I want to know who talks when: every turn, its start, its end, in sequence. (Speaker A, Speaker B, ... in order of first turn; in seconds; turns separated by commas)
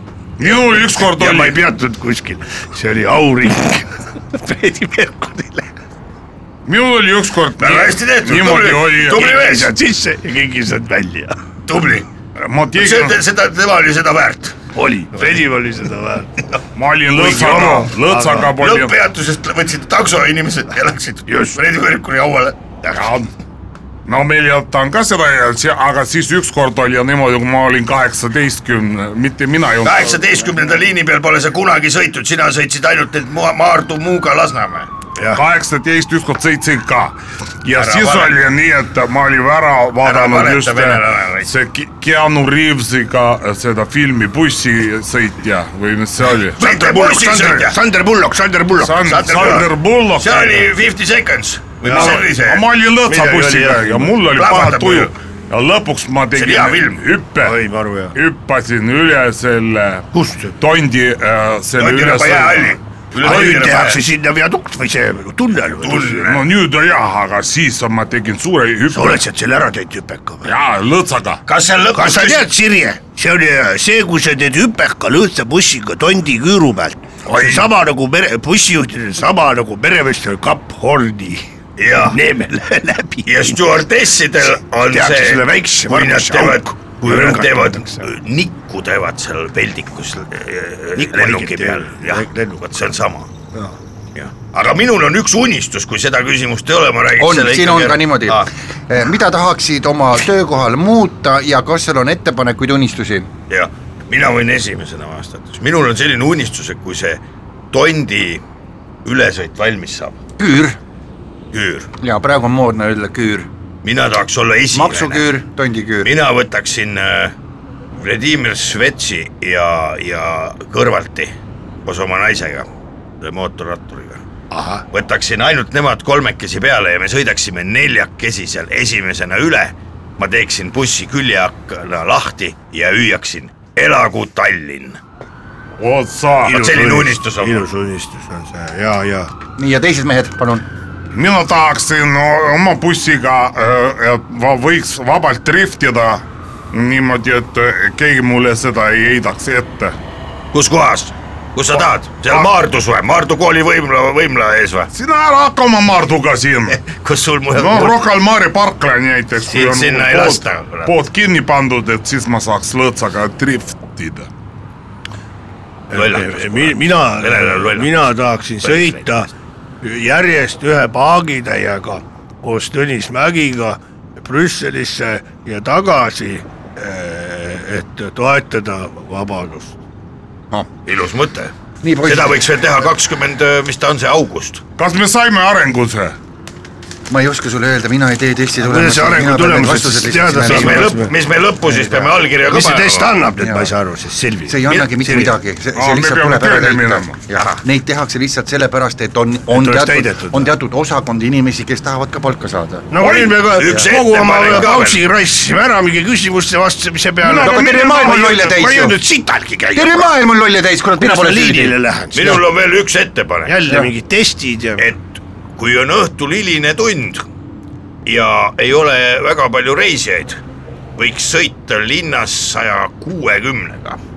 Speaker A: 0.4-1.6, Speaker B: 0.9-5.7, Speaker A: 6.7-9.3, Speaker C: 7.6-9.7, Speaker B: 9.1-11.3, Speaker C: 11.7-12.1, Speaker A: 12.3-13.2, Speaker C: 12.8-14.5, Speaker B: 14.7-16.3, Speaker A: 16.7-19.0, Speaker B: 17.1-18.5, Speaker C: 18.6-22.6, Speaker B: 21.3-21.6, Speaker A: 22.9-23.3, Speaker A: 24.1-30.2, Speaker C: 29.8-34.9, Speaker B: 35.2-35.4, Speaker A: 35.3-46.6, Speaker C: 37.7-38.4, Speaker C: 40.0-41.5, Speaker C: 46.6-47.8, Speaker B: 46.6-49.6, Speaker A: 48.8-50.7, Speaker C: 49.0-52.7, Speaker B: 51.8-52.2, Speaker A: 51.8-57.6, Speaker B: 53.1-54.2, Speaker C: 54.3-55.1, Speaker C: 56.3-57.0, Speaker B: 57.4-58.1, Speaker A: 58.1-62.8, Speaker B: 60.1-60.5, Speaker C: 61.8-64.0, Speaker B: 63.2-66.4, Speaker C: 65.8-66.4, Speaker A: 66.2-69.2, Speaker B: 68.9-70.5, Speaker A: 70.4-71.4, Speaker C: 71.5-72.5, Speaker B: 71.9-81.5, Speaker C: 77.3-77.7, Speaker C: 81.8-82.2, Speaker B: 82.0-83.7, Speaker C: 83.2-93.3, Speaker B: 84.5-88.1, Speaker B: 90.9-92.7, Speaker C: 94.1-98.5, Speaker D: 97.1-103.3, Speaker C: 103.5-108.4, Speaker C: 109.0-110.2, Speaker D: 110.4-110.8, Speaker C: 111.5-111.9, Speaker D: 112.0-113.5, Speaker C: 113.8-115.3, Speaker D: 114.7-116.2, Speaker C: 116.0-117.3, Speaker C: 117.9-122.7, Speaker C: 123.2-124.2, Speaker B: 124.5-124.8, Speaker C: 124.9-135.0, Speaker A: 135.8-136.6, Speaker B: 136.4-139.3, Speaker C: 136.5-137.7, Speaker D: 139.6-140.7, Speaker A: 141.1-149.9, Speaker C: 150.5-154.9, Speaker A: 151.8-152.5, Speaker A: 154.9-156.8, Speaker C: 156.7-158.0, Speaker A: 157.5-164.3, Speaker C: 159.5-160.9, Speaker B: 165.9-169.3, Speaker C: 165.9-167.9, Speaker C: 168.6-169.0, Speaker B: 169.8-179.8, Speaker C: 180.8-184.6, Speaker D: 181.8-182.4, Speaker A: 184.8-186.2, Speaker D: 187.1-191.0, Speaker B: 188.6-191.1, Speaker C: 190.4-193.2, Speaker B: 192.5-195.3, Speaker D: 193.4-193.7, Speaker D: 194.5-202.9, Speaker A: 195.7-197.2, Speaker C: 197.3-197.6, Speaker B: 199.5-200.5, Speaker B: 202.9-210.1, Speaker A: 203.0-203.3, Speaker C: 203.5-205.0, Speaker A: 207.2-208.3, Speaker D: 207.3-209.0, Speaker D: 209.7-211.8, Speaker B: 210.9-212.4, Speaker C: 212.1-213.6, Speaker B: 213.4-214.9, Speaker C: 215.6-217.2, Speaker C: 218.0-220.4, Speaker C: 221.0-224.0